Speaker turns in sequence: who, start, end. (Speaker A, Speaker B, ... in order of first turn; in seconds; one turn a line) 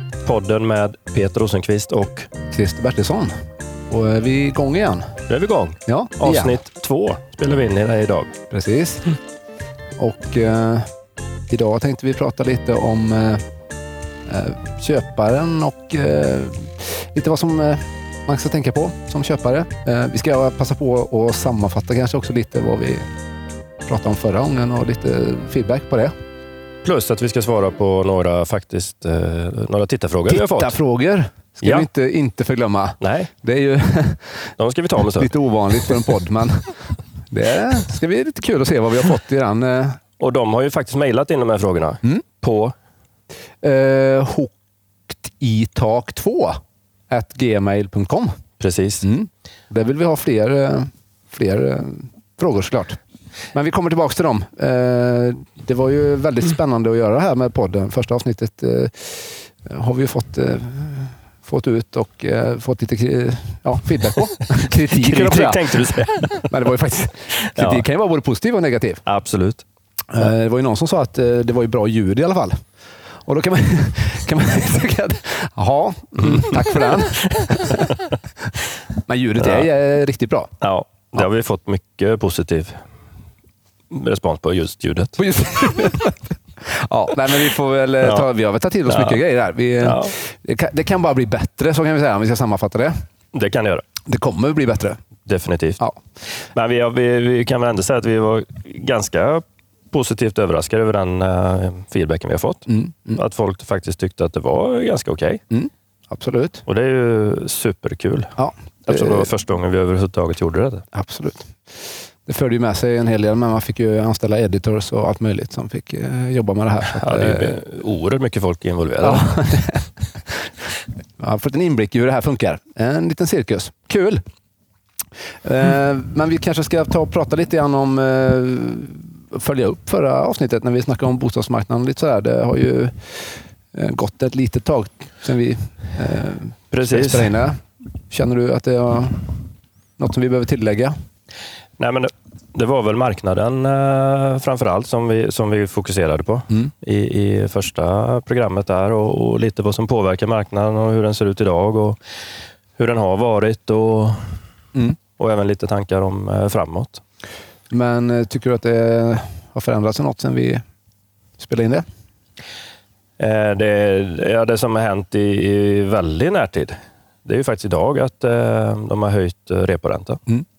Speaker A: 0.2-2.3
Speaker B: 2.5-3.3
Speaker B: 3.9-5.1
Speaker A: 5.3-8.3
Speaker B: 5.9-6.5
Speaker B: 8.5-9.1
Speaker B: 10.0-10.9
Speaker B: 11.5-13.4
Speaker B: 14.3-23.1
Speaker B: 23.9-26.1
Speaker A: 26.8-30.8
Speaker B: 30.3-34.5
Speaker A: 33.0-33.3
Speaker A: 34.6-35.3
Speaker B: 35.1-40.0
Speaker A: 40.2-42.8
Speaker B: 43.6-44.5
Speaker B: 45.2-48.4
Speaker A: 48.6-49.1
Speaker B: 49.0-53.0
Speaker B: 53.5-69.0
Speaker A: 64.8-66.5
Speaker A: 67.4-67.8
Speaker A: 69.1-69.7
Speaker B: 70.1-72.6
Speaker B: 73.2-78.0
Speaker A: 76.2-78.1
Speaker B: 79.1-80.5
Speaker A: 79.4-79.7
Speaker A: 80.6-82.8
Speaker A: 83.9-85.2
Speaker B: 85.2-93.0
Speaker A: 88.9-89.2
Speaker A: 89.8-90.2
Speaker A: 93.3-93.9
Speaker B: 94.1-95.0
Speaker A: 95.3-95.9
Speaker A: 96.4-105.4
Speaker B: 102.7-103.2
Speaker B: 105.5-106.6
Speaker A: 106.7-110.9
Speaker B: 108.4-109.3
Speaker B: 110.9-117.6
Speaker A: 116.9-119.3
Speaker B: 119.0-119.9
Speaker B: 121.2-124.2
Speaker B: 125.4-139.4
Speaker A: 136.7-137.3
Speaker B: 140.0-140.9
Speaker A: 141.8-152.0
Speaker A: 152.8-154.4
Speaker A: 155.2-157.0
Speaker B: 157.7-160.6
Speaker B: 161.4-161.9
Speaker A: 163.2-170.2